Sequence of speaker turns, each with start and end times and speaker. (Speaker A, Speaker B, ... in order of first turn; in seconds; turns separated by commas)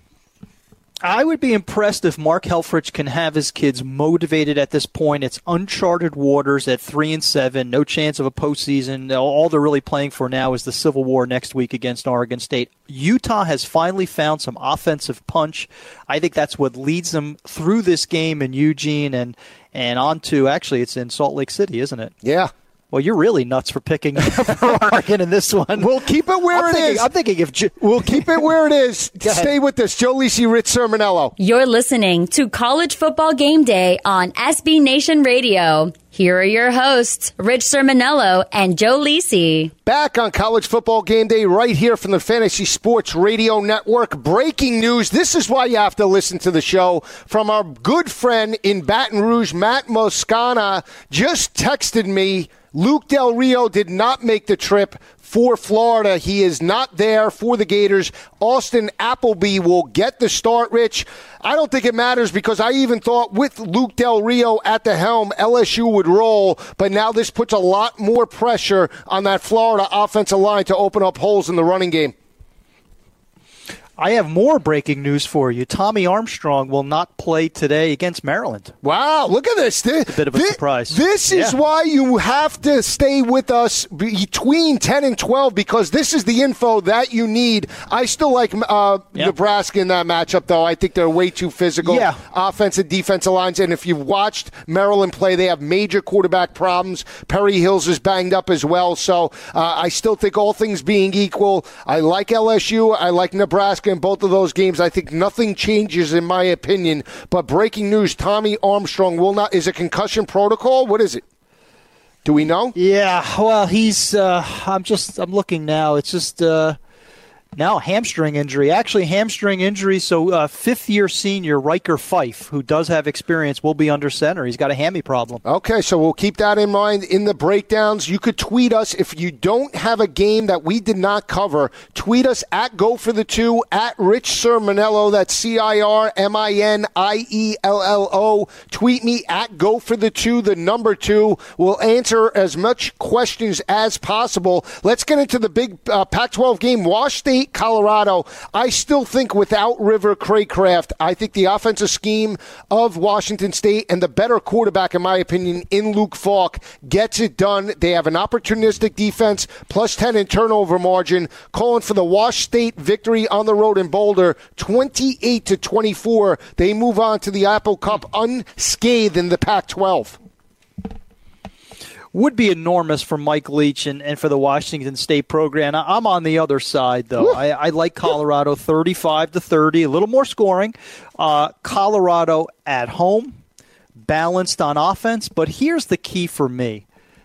Speaker A: 1.0-22.1, Speaker B: 22.2-22.5, Speaker A: 22.9-25.9, Speaker B: 25.8-27.1, Speaker A: 26.5-28.4, Speaker B: 27.8-31.3, Speaker A: 29.2-29.5, Speaker C: 31.4-39.7, Speaker B: 39.9-72.1, Speaker A: 74.0-78.7, Speaker B: 78.8-111.2, Speaker A: 80.1-81.6, Speaker A: 91.8-92.2, Speaker B: 112.2-112.8, Speaker A: 112.8-116.8, Speaker A: 117.5-125.4, Speaker B: 125.5-170.2, Speaker A: 172.1-183.4, Speaker A: 184.0-186.8